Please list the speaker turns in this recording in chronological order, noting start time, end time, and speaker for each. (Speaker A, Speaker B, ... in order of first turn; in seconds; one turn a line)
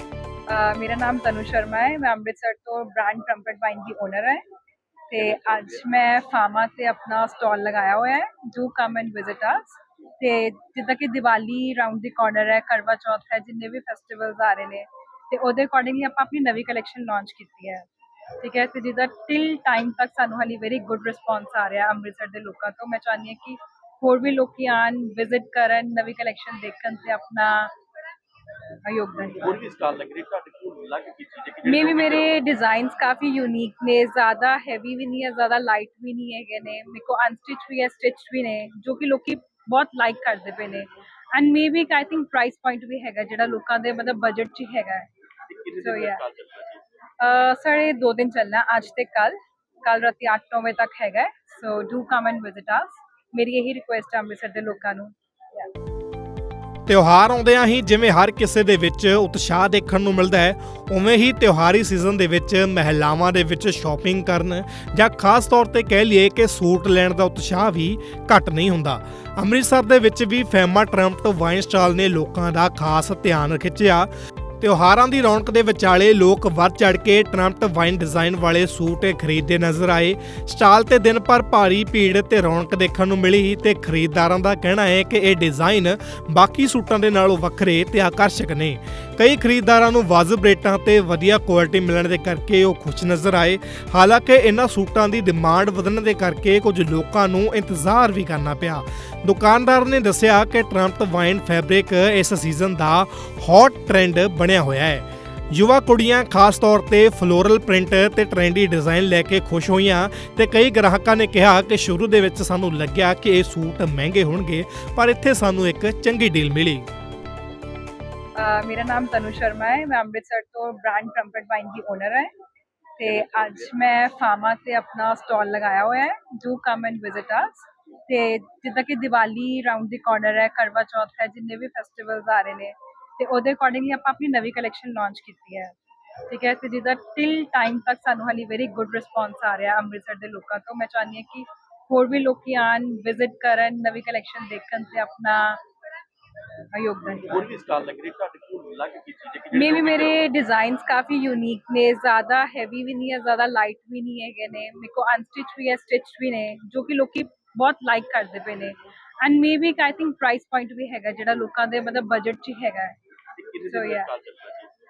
Speaker A: 0.5-4.5
Speaker A: 5.1-27.7
Speaker A: 28.9-29.6
Speaker B: 29.4-32.4
Speaker A: 31.6-45.1
Speaker B: 45.5-46.8
Speaker A: 45.8-46.2
Speaker A: 47.2-55.7
Speaker C: 56.9-116.9
Speaker A: 118.4-122.3
Speaker A: 123.0-145.6
Speaker A: 146.7-147.4
Speaker B: 147.3-150.2
Speaker A: 149.5-163.0
Speaker B: 163.4-164.7
Speaker A: 163.7-164.1